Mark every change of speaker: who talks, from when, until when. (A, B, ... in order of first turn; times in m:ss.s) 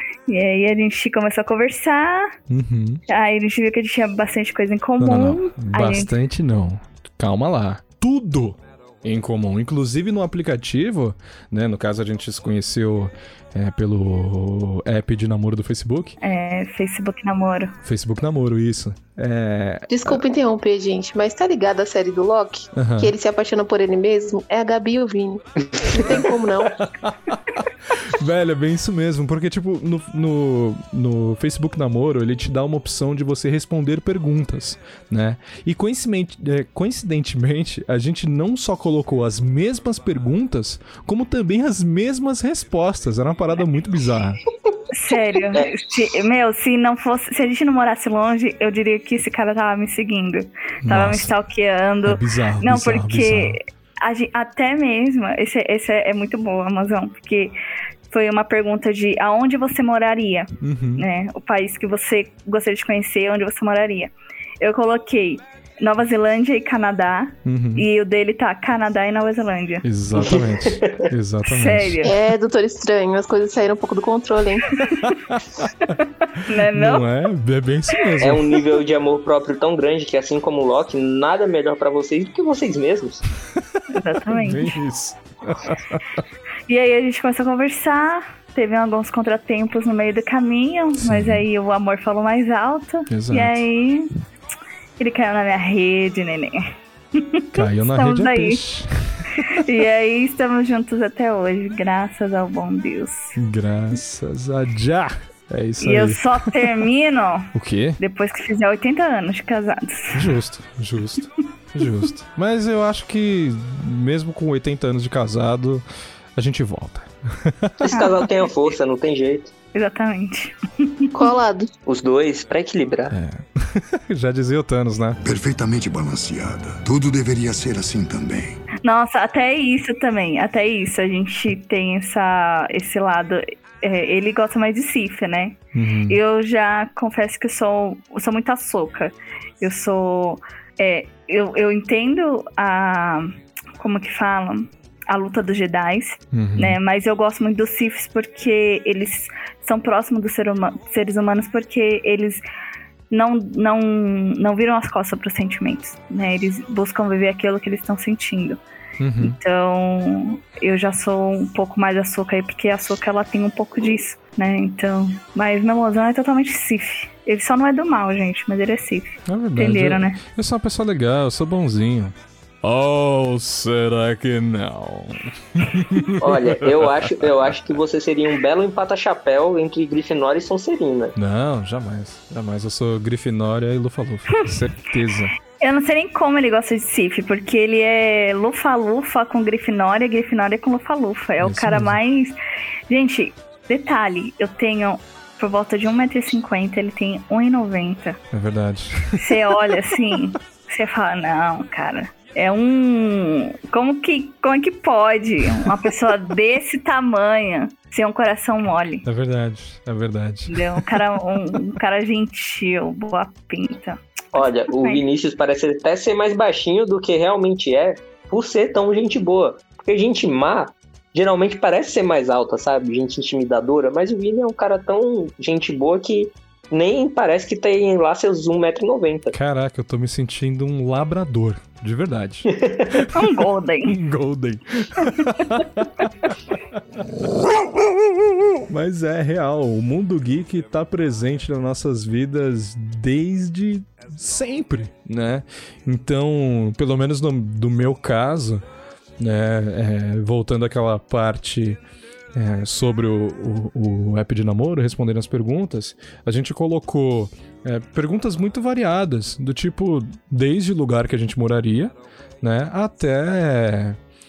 0:00.3-0:02.3 A
0:02.5-0:03.0 B
0:03.1-0:06.1 A
0:05.0-0:16.2 B
0:16.2-0:17.8 A
0:17.8-0:20.2 B
0:19.9-0:26.8 C
0:22.7-0:23.1 B
0:26.7-0:44.4 B
0:44.9-0:57.5 A
0:50.8-0:51.4 B
0:52.0-0:53.6 B
0:58.1-1:09.8 A
1:00.6-1:01.1 B
1:07.4-1:07.9 B
1:09.8-1:12.0 B
1:10.2-1:11.0 D
1:11.4-1:12.1 A
1:12.0-1:14.7 C
1:15.0-1:15.7 B
1:16.4-1:17.0 A
1:16.5-1:18.5 B
1:18.2-1:23.2 D
1:23.9-1:24.8 A
1:24.3-1:26.0 B
1:26.7-1:34.0 A
1:31.0-1:31.4 B
1:33.1-1:33.6 B
1:35.0-1:36.6 A
1:37.2-1:38.6 A
1:37.5-1:39.6 B
1:39.6-1:43.4 A
1:43.4-1:46.4 B
1:45.8-1:50.2 A
1:47.5-1:48.0 B
1:50.1-1:57.9 B
1:57.8-1:59.5 D
1:57.9-1:58.3 A
1:59.7-2:01.1 A
2:01.1-2:01.7 C
2:01.8-2:03.1 D
2:03.1-2:05.2 B
2:05.2-2:08.6 E
2:08.8-2:32.4 A
2:15.7-2:16.2 B
2:26.3-2:26.8 B
2:33.1-2:38.6 A
2:39.0-2:39.4 B
2:39.2-2:50.2 A
2:49.3-2:57.6 B
2:56.2-3:01.1 D
3:01.2-3:05.3 B
3:05.6-3:12.4 A
3:11.4-3:12.0 B
3:12.9-3:18.2 A
3:18.3-3:19.6 B
3:19.2-3:29.0 A
3:29.0-3:31.2 B
3:30.5-3:35.0 A
3:34.4-3:49.3 D
3:49.3-3:53.3 B
3:52.5-3:52.8 D
3:53.1-3:53.9 A
3:53.8-3:56.1 B
3:58.6-4:08.6 B
4:09.2-4:11.8 B
4:12.3-4:24.0 B